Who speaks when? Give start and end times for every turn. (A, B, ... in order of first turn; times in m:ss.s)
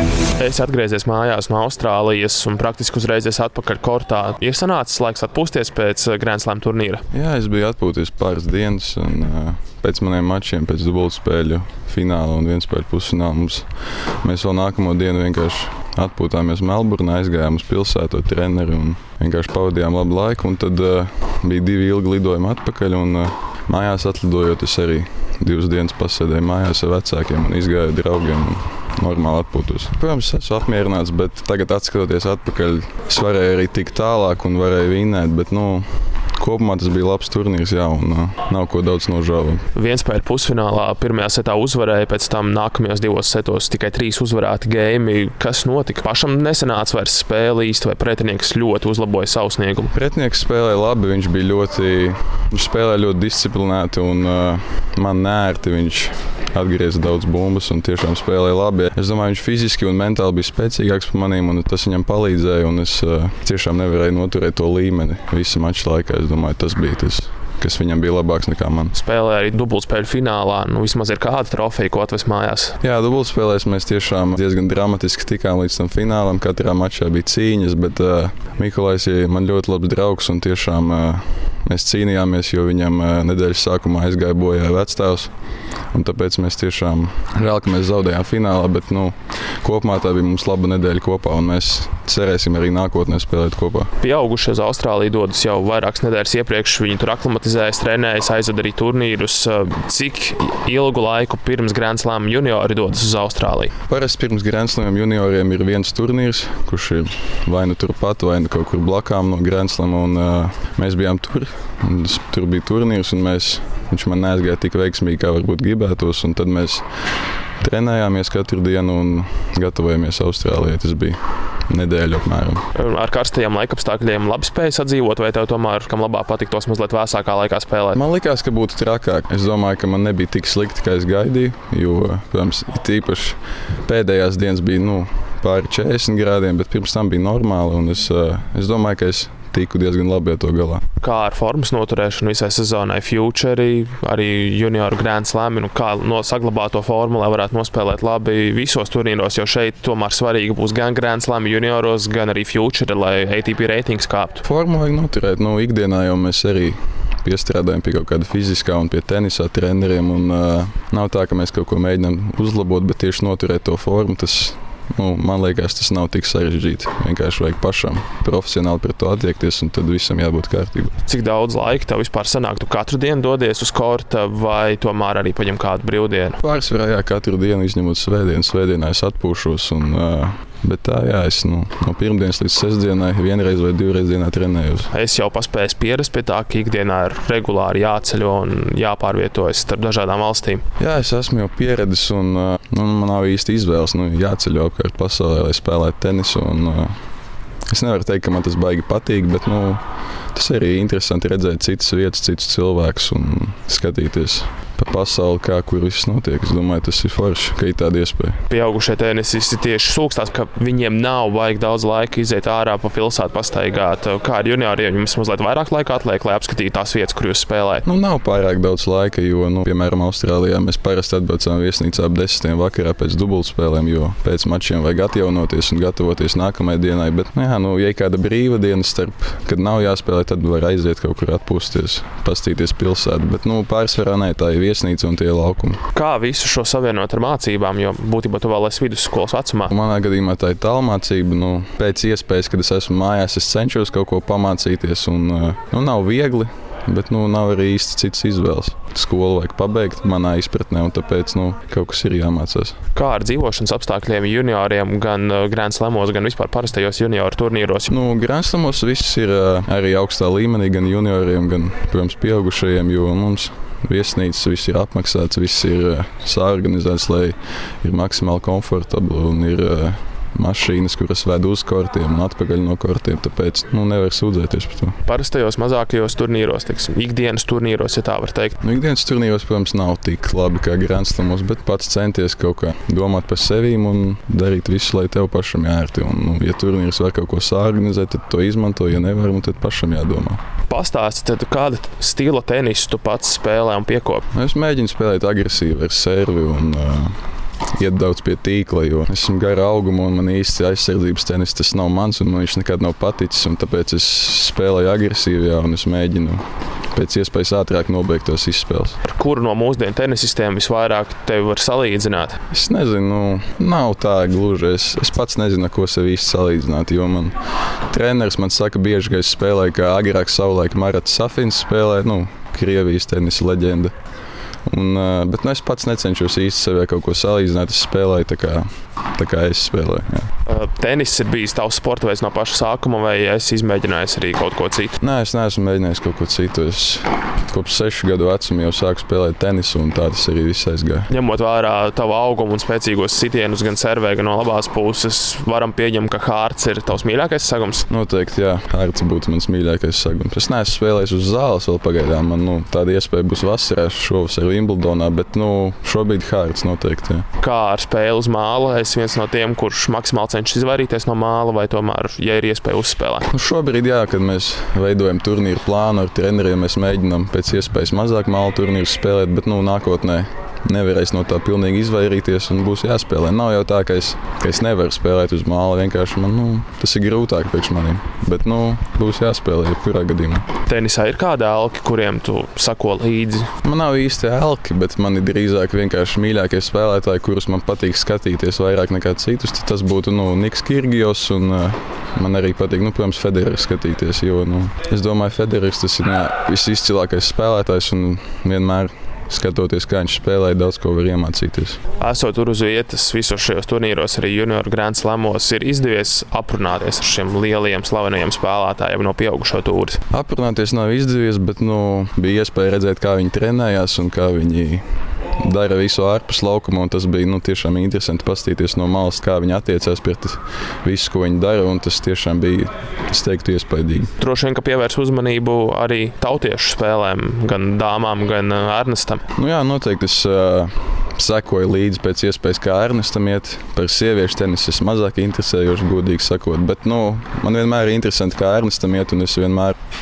0:00.4-0:07.0 A
0:07.1-0:39.7 B
0:39.8-0:49.9 A
0:49.9-1:09.0 B
1:09.0-1:12.8 A
1:12.8-1:33.9 B
1:34.0-1:43.7 A
1:43.9-1:57.0 B
1:57.6-2:02.7 B
2:02.8-2:08.0 A
2:08.0-2:20.8 B
2:21.0-2:34.4 A
2:34.4-2:50.9 B
2:51.1-2:56.4 A
2:56.4-3:04.9 B
3:04.9-3:10.6 A
3:10.8-3:17.0 B
3:17.7-3:28.4 B
3:28.5-3:37.8 A
3:37.8-3:55.8 B
3:56.0-3:59.7 A
3:59.7-4:12.8 B
4:13.0-4:17.9 A
4:17.9-4:35.0 B
4:35.1-4:38.6 A
4:38.6-4:50.4 B
4:50.7-4:54.2 A
4:54.3-4:57.2 B
4:57.7-5:09.0 B
5:09.0-5:12.4 A
5:12.5-5:17.4 B
5:17.9-5:23.9 B
5:24.7-5:30.3 B
5:30.5-5:34.9 A
5:35.0-5:41.1 B
5:41.1-5:47.9 A
5:47.9-5:57.3 B
5:57.4-6:03.3 A
6:03.3-6:20.5 B
6:20.7-6:23.5 A
6:23.6-6:41.8 B
6:42.0-6:50.0 A
6:50.1-6:54.8 B
6:55.4-7:04.1 B
7:04.2-7:09.2 A
7:09.4-7:19.8 B